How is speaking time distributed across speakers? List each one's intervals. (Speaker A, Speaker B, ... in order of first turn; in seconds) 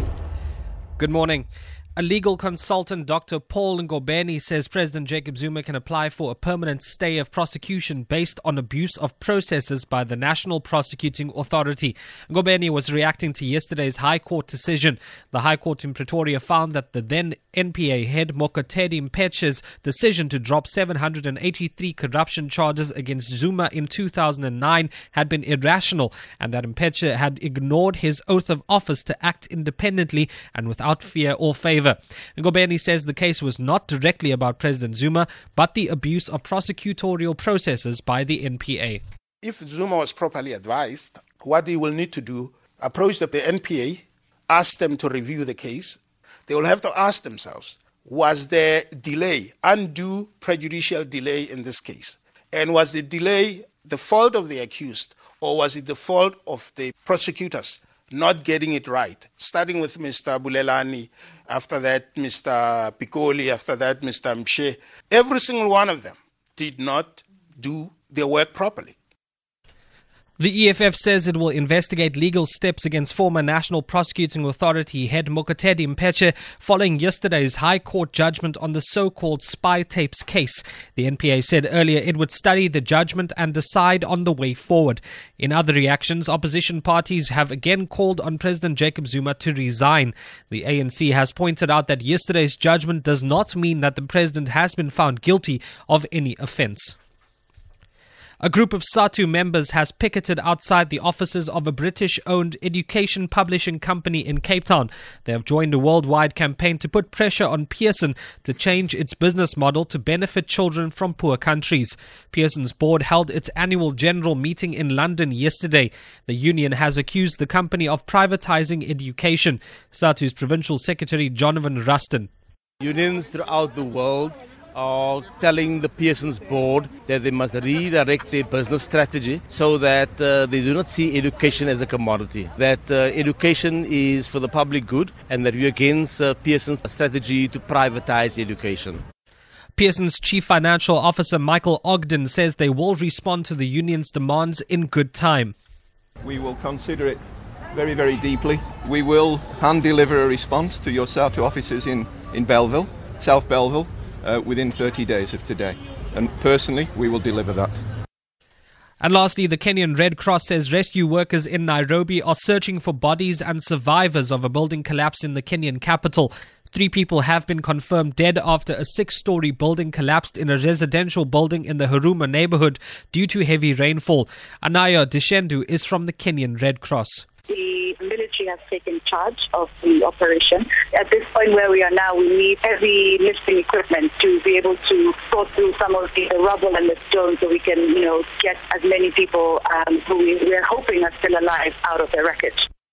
Speaker A: 1.0-1.5, 2.0-39.0, 70.4-97.0, 98.4-122.3, 139.8-145.5, 159.0-177.3
Speaker B: 39.4-69.0
Speaker C: 122.8-139.0
Speaker D: 146.2-157.8
Speaker E: 177.5-192.7